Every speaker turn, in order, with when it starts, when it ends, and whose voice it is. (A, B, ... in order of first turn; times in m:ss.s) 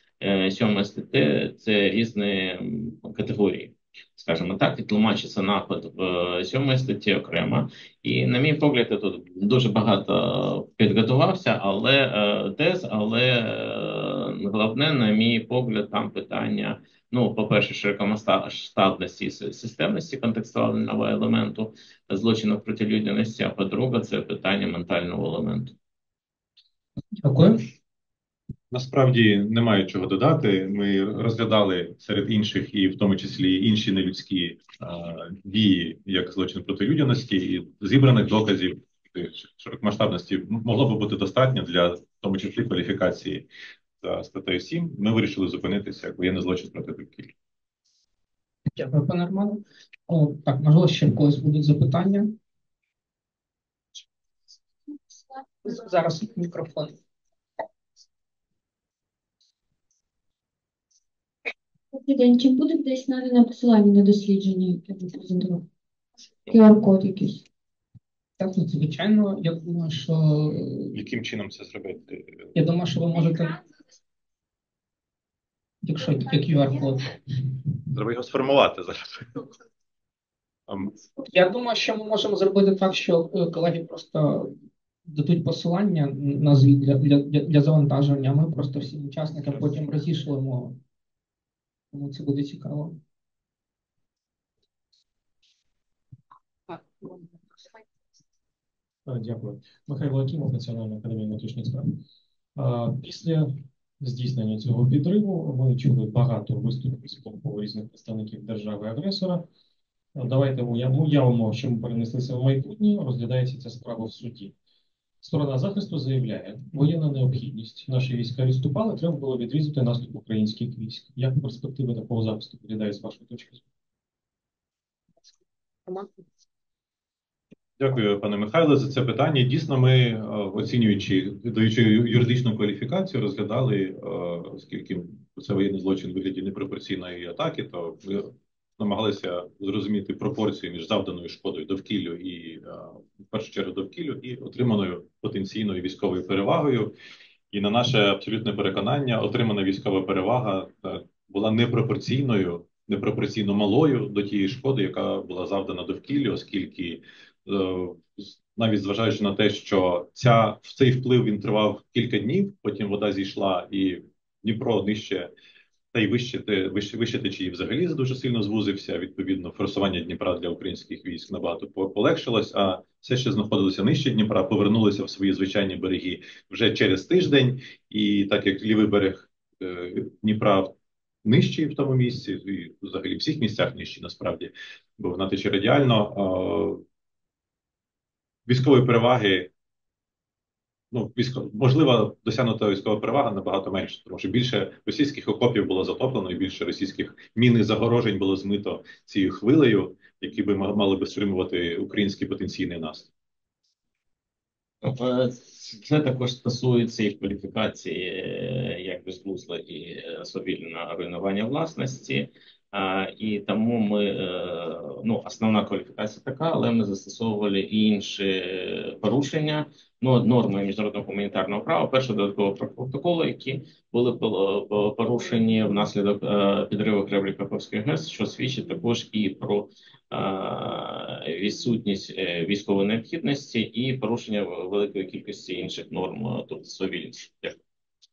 0:00.2-0:25.8 A
0:27.2-0:27.6 B
0:28.7-0:43.5 C
0:44.0-0:47.3 C
0:48.8-0:52.3 B
0:55.6-0:57.0 B
1:01.9-1:05.6 D
1:06.5-1:07.4 D
1:08.4-1:11.0 B
1:10.9-1:12.6 C
1:12.6-1:13.6 B
1:15.8-1:17.2 B
1:17.9-1:19.4 C
1:21.2-1:24.5 B
1:25.1-1:30.8 B
1:31.9-1:33.0 B
1:36.7-1:37.7 B
1:39.1-1:42.0 E
1:42.6-1:49.5 E
1:50.2-1:54.5 E
1:55.2-2:03.6 E
2:07.8-2:26.9 C
2:27.5-2:45.3 C
2:45.9-3:06.8 C
3:08.5-3:09.5 C
3:10.9-3:23.1 C
3:24.8-3:57.6 A